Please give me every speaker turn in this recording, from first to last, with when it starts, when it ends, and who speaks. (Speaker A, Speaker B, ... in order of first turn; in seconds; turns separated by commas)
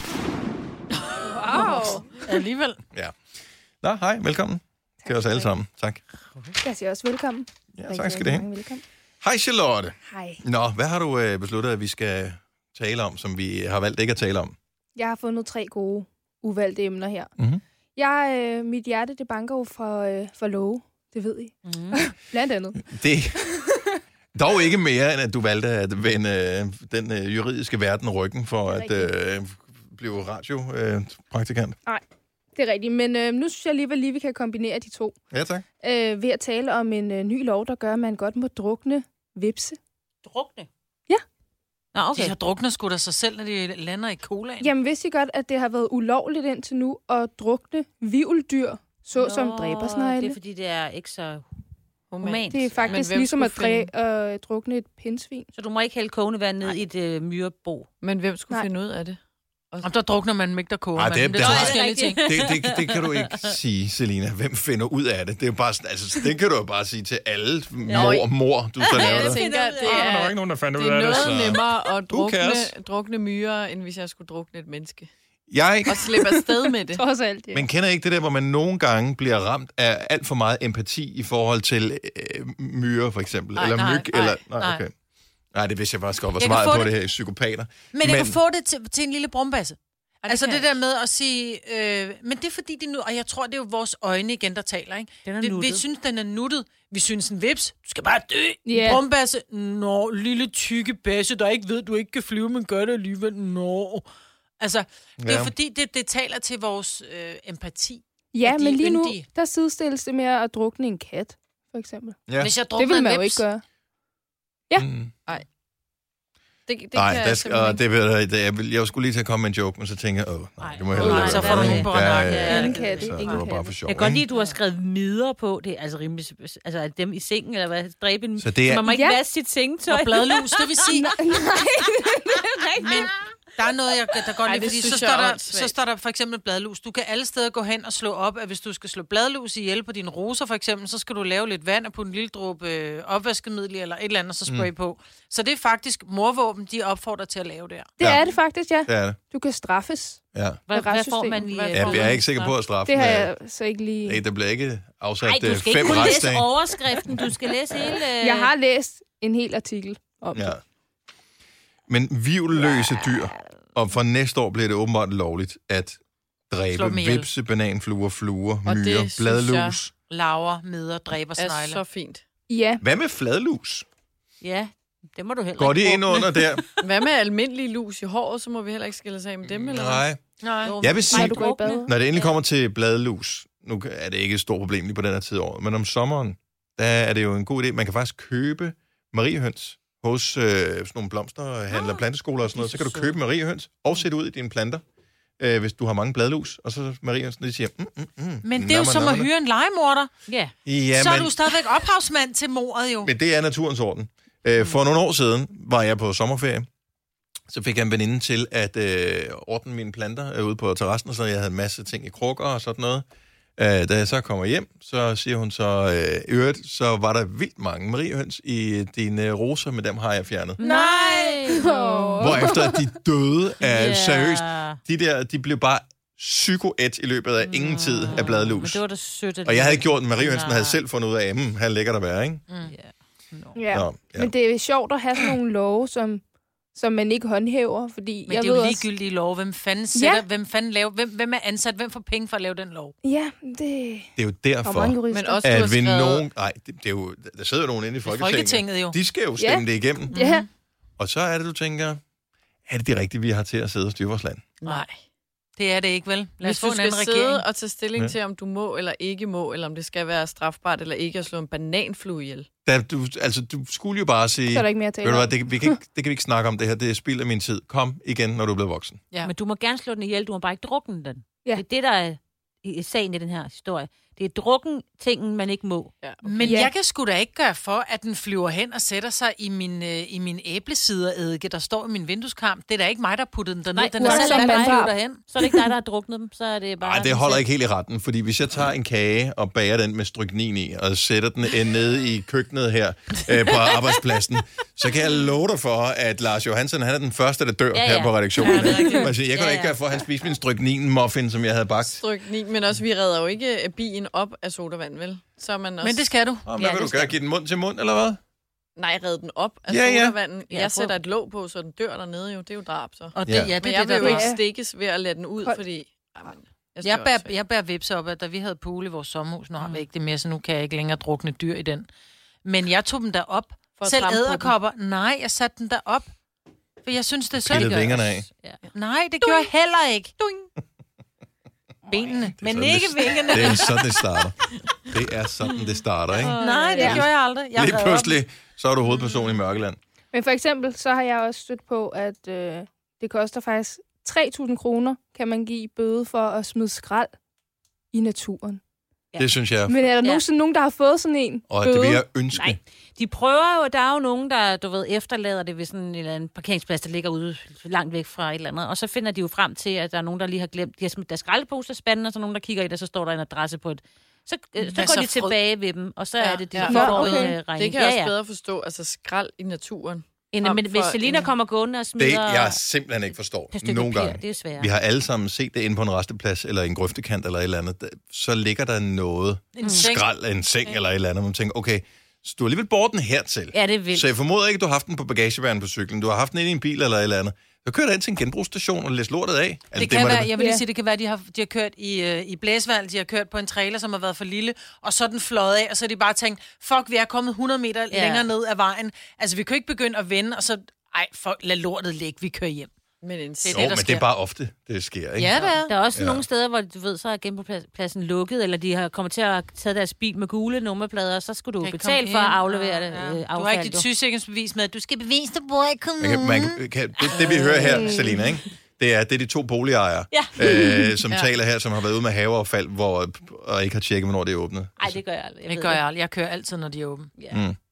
Speaker A: 1.3-2.0, Speaker B: 1.5-2.2, Speaker C: 2.2-2.8, Speaker D: 3.8-6.0, Speaker A: 5.0-5.5, Speaker A: 6.6-8.8, Speaker D: 7.8-8.5, Speaker D: 9.2-14.5, Speaker A: 10.1-10.4, Speaker A: 14.9-17.3, Speaker A: 17.9-22.8, Speaker E: 21.6-22.0, Speaker D: 22.8-23.4, Speaker A: 23.4-23.9, Speaker D: 24.3-31.8, Speaker A: 28.7-29.1, Speaker A: 32.5-35.1, Speaker D: 35.3-35.6, Speaker A: 35.8-39.8, Speaker E: 40.2-40.7, Speaker E: 41.9-42.3, Speaker C: 42.1-44.7, Speaker A: 44.6-50.4, Speaker E: 49.1-51.4, Speaker B: 52.1-53.9, Speaker E: 52.2-53.0, Speaker A: 52.5-55.5, Speaker E: 55.5-57.9, Speaker B: 58.0-59.2, Speaker C: 59.8-62.2, Speaker D: 60.9-72.7, Speaker E: 61.3-63.5, Speaker E: 67.8-68.2, Speaker B: 67.9-68.3, Speaker E: 68.8-70.1, Speaker B: 68.8-75.1, Speaker D: 75.5-76.4, Speaker B: 75.8-77.0, Speaker A: 76.9-77.7, Speaker D: 77.5-84.9, Speaker B: 83.5-84.4, Speaker C: 83.7-84.8, Speaker D: 85.5-88.4, Speaker C: 86.4-86.9, Speaker C: 87.9-104.0, Speaker B: 90.2-90.7, Speaker E: 95.2-95.8, Speaker A: 98.7-99.0, Speaker C: 104.6-109.2, Speaker D: 105.2-105.5, Speaker A: 108.3-112.2, Speaker D: 112.3-112.5, Speaker C: 112.4-113.4, Speaker A: 112.8-113.6, Speaker D: 114.8-115.1, Speaker B: 116.7-117.8, Speaker D: 116.9-124.2, Speaker E: 120.6-130.9, Speaker C: 120.9-123.1, Speaker A: 122.4-123.7, Speaker C: 124.3-124.6, Speaker D: 128.4-128.9, Speaker A: 128.8-129.2, Speaker C: 129.9-131.1, Speaker A: 130.9-133.1, Speaker C: 132.8-147.9, Speaker B: 134.4-135.7, Speaker A: 148.0-151.4, Speaker D: 148.0-148.2, Speaker D: 148.8-149.2, Speaker D: 150.3-150.6, Speaker E: 150.7-152.3, Speaker B: 151.4-152.5, Speaker D: 151.7-153.3, Speaker A: 152.8-154.2, Speaker D: 154.0-156.5, Speaker E: 155.2-158.5, Speaker A: 158.2-160.6, Speaker D: 160.3-160.6, Speaker D: 161.9-166.0, Speaker D: 166.5-169.9, Speaker C: 166.7-167.3, Speaker B: 168.7-169.8, Speaker C: 170.1-171.8, Speaker B: 171.4-172.2, Speaker A: 172.5-172.8, Speaker D: 172.8-173.8, Speaker E: 174.4-176.7, Speaker D: 175.6-176.6, Speaker B: 176.8-180.0, Speaker D: 179.7-180.2, Speaker C: 180.4-180.8, Speaker E: 180.6-182.3, Speaker D: 180.8-194.8, Speaker A: 181.1-181.9, Speaker D: 195.4-199.3, Speaker C: 198.4-200.1, Speaker E: 200.3-200.5, Speaker D: 200.7-201.4, Speaker C: 200.9-203.1, Speaker D: 203.0-206.7, Speaker D: 207.5-213.0, Speaker D: 213.6-220.6, Speaker E: 220.6-222.4, Speaker A: 220.6-222.9, Speaker D: 222.2-228.8, Speaker E: 223.6-224.8, Speaker E: 227.4-230.8, Speaker D: 229.4-232.4, Speaker E: 232.7-233.6, Speaker A: 233.6-236.2, Speaker D: 233.7-234.3, Speaker A: 236.7-238.8, Speaker C: 238.3-242.9, Speaker A: 239.9-240.2, Speaker A: 243.0-244.1, Speaker D: 244.2-250.1, Speaker A: 244.6-245.4, Speaker B: 245.1-246.2, Speaker C: 248.0-249.0, Speaker A: 249.4-250.4, Speaker C: 250.1-250.4, Speaker D: 251.0-252.0, Speaker D: 252.7-254.5, Speaker B: 254.6-254.9, Speaker C: 255.6-257.4, Speaker B: 256.4-262.5, Speaker D: 262.6-269.0, Speaker A: 264.5-265.8, Speaker E: 269.2-275.9, Speaker B: 276.0-276.6, Speaker C: 276.2-285.2, Speaker A: 276.4-276.7, Speaker E: 283.8-287.4, Speaker A: 284.0-284.9, Speaker D: 286.8-302.0, Speaker E: 297.7-299.8, Speaker B: 298.5-298.9, Speaker B: 301.9-306.0, Speaker C: 305.8-306.5, Speaker D: 306.4-308.2, Speaker E: 306.6-307.1, Speaker B: 308.8-317.3, Speaker D: 309.7-310.1, Speaker E: 310.5-310.9, Speaker C: 313.1-314.3, Speaker D: 313.3-313.5, Speaker E: 313.9-314.2, Speaker A: 314.0-314.4, Speaker C: 316.8-321.9, Speaker C: 322.4-326.1, Speaker B: 323.8-324.5, Speaker C: 326.8-327.8, Speaker D: 327.4-328.3, Speaker E: 327.5-328.6, Speaker C: 328.7-330.5, Speaker C: 331.9-333.9, Speaker E: 331.9-332.3, Speaker D: 332.4-339.8, Speaker E: 332.9-333.7, Speaker E: 336.1-337.0, Speaker C: 336.4-338.2, Speaker A: 340.1-347.1, Speaker A: 347.9-348.6, Speaker D: 349.2-349.8, Speaker A: 349.7-352.0, Speaker D: 351.5-352.6, Speaker E: 352.3-368.1, Speaker C: 364.7-365.4, Speaker B: 366.2-371.3, Speaker A: 366.6-367.4, Speaker E: 370.3-372.6, Speaker D: 372.0-390.3, Speaker E: 373.5-374.7, Speaker C: 379.6-380.0, Speaker E: 379.6-379.9, Speaker E: 383.5-384.1, Speaker C: 389.7-402.7, Speaker A: 390.4-390.6, Speaker E: 397.9-398.3, Speaker B: 403.0-403.7, Speaker C: 403.4-404.1, Speaker D: 403.5-406.2, Speaker C: 405.2-405.7, Speaker E: 405.6-413.9, Speaker C: 411.6-417.8, Speaker D: 416.0-425.0, Speaker E: 417.1-418.2, Speaker E: 420.1-420.9, Speaker E: 424.8-425.8, Speaker C: 425.5-427.1, Speaker E: 427.2-427.4